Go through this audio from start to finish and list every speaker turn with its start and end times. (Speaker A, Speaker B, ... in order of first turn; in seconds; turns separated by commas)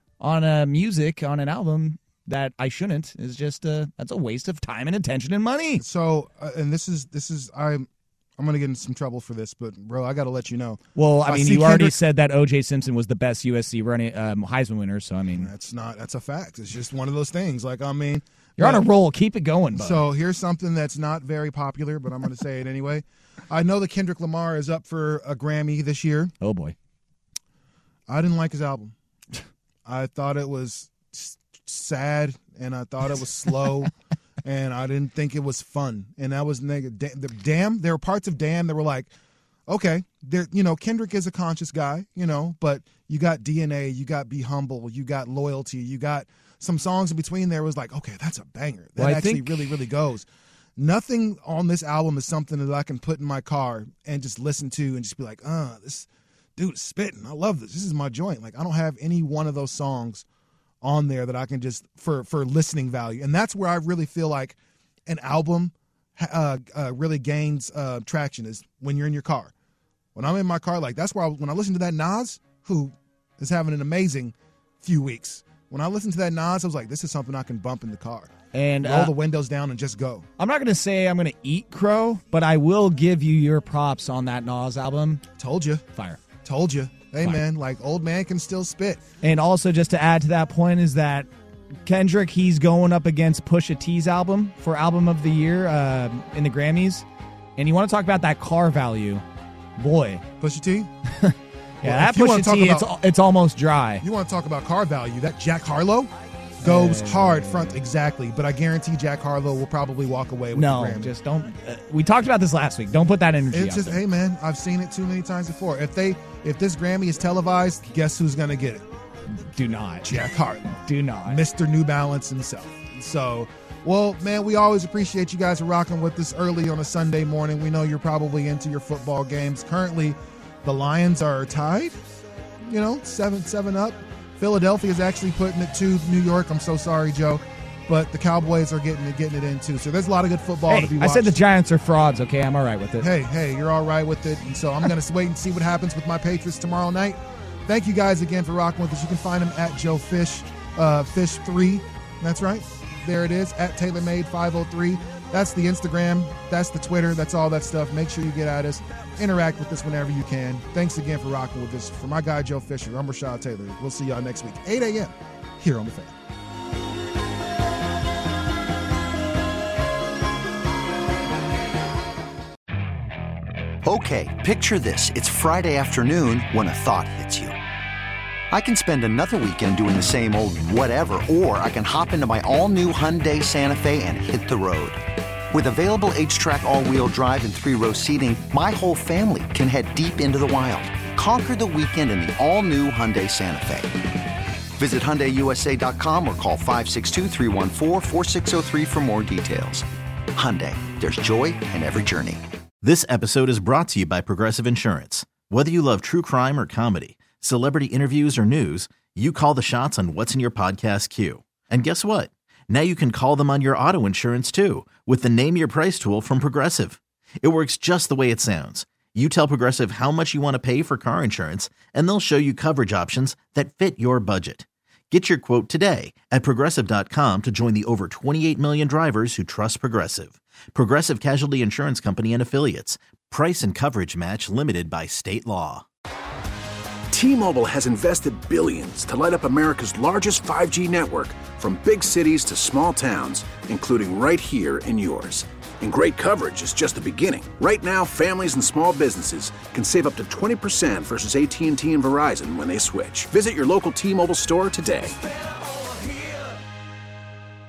Speaker A: 0.2-5.8, Speaker B: 5.8-12.0, Speaker A: 10.9-15.5, Speaker B: 15.3-18.8, Speaker A: 18.6-20.1, Speaker B: 19.7-26.3, Speaker A: 26.4-26.8, Speaker B: 28.1-28.9, Speaker B: 29.9-33.9, Speaker B: 34.4-39.1, Speaker B: 39.7-60.2, Speaker A: 49.0-49.8, Speaker B: 60.8-69.5, Speaker B: 70.1-80.2, Speaker A: 78.5-79.1, Speaker A: 80.4-85.2, Speaker B: 85.4-85.8, Speaker A: 85.9-86.2, Speaker B: 86.4-89.0, Speaker A: 89.2-91.3, Speaker A: 91.8-97.0, Speaker A: 97.6-99.2, Speaker A: 99.8-100.2, Speaker B: 100.4-100.9, Speaker A: 101.1-104.0, Speaker B: 101.8-102.9, Speaker B: 104.0-111.1, Speaker A: 106.6-107.8, Speaker A: 110.5-114.0, Speaker B: 113.5-118.8, Speaker A: 119.3-121.4, Speaker B: 120.0-132.0, Speaker B: 132.6-141.3, Speaker A: 140.7-143.1, Speaker B: 143.0-166.1, Speaker C: 173.8-177.6, Speaker C: 178.5-193.9, Speaker C: 194.8-202.4, Speaker D: 202.8-235.8, Speaker E: 237.1-255.2